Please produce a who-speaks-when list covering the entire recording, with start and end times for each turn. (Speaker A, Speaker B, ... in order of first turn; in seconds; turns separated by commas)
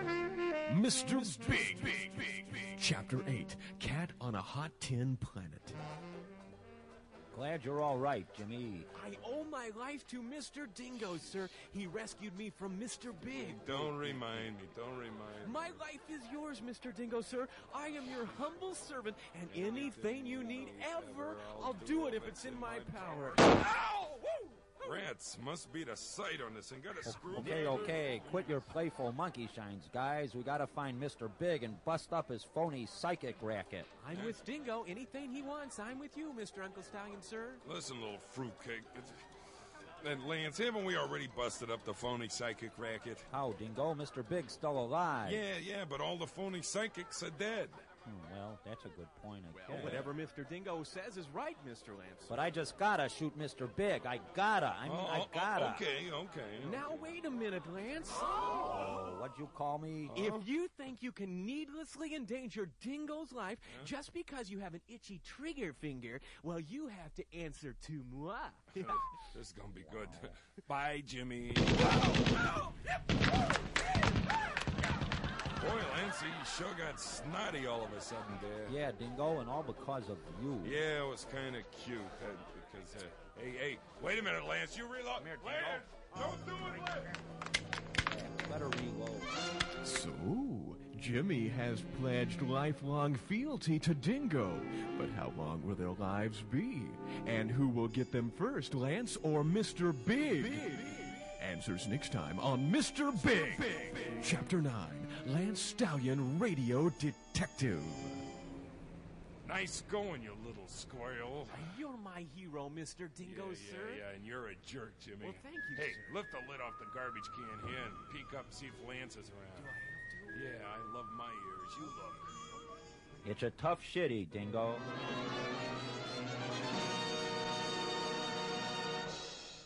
Speaker A: 0.7-5.8, Speaker B: 1.0-2.4, Speaker C: 7.3-8.9, Speaker B: 8.9-14.1, Speaker D: 13.4-15.8, Speaker A: 13.7-14.1, Speaker B: 15.4-25.0, Speaker D: 19.5-23.5, Speaker D: 24.8-28.7, Speaker C: 27.1-34.0, Speaker B: 34.0-37.6, Speaker D: 34.1-34.4, Speaker D: 37.6-39.2, Speaker D: 40.0-43.3, Speaker C: 43.3-45.4, Speaker D: 45.2-47.8, Speaker C: 48.0-50.1, Speaker B: 49.5-52.4, Speaker A: 49.7-50.0, Speaker C: 52.3-55.9, Speaker D: 54.9-57.0, Speaker B: 56.6-58.7, Speaker C: 58.6-60.1, Speaker D: 60.1-60.5, Speaker B: 60.1-69.1, Speaker D: 68.8-72.1, Speaker C: 69.8-70.4, Speaker D: 75.6-78.8, Speaker C: 78.7-80.8, Speaker D: 80.6-87.2, Speaker C: 85.2-85.9, Speaker C: 88.1-89.3, Speaker A: 89.8-96.0, Speaker B: 92.6-93.5, Speaker B: 94.1-94.7, Speaker B: 95.9-99.5, Speaker A: 97.1-98.2, Speaker A: 99.5-100.7, Speaker A: 101.4-108.1, Speaker B: 103.1-103.6, Speaker B: 105.3-106.0, Speaker D: 109.5-111.8, Speaker B: 111.5-114.0, Speaker D: 113.2-119.7, Speaker B: 115.2-116.2, Speaker B: 119.5-120.5, Speaker D: 120.3-122.3, Speaker C: 123.2-124.8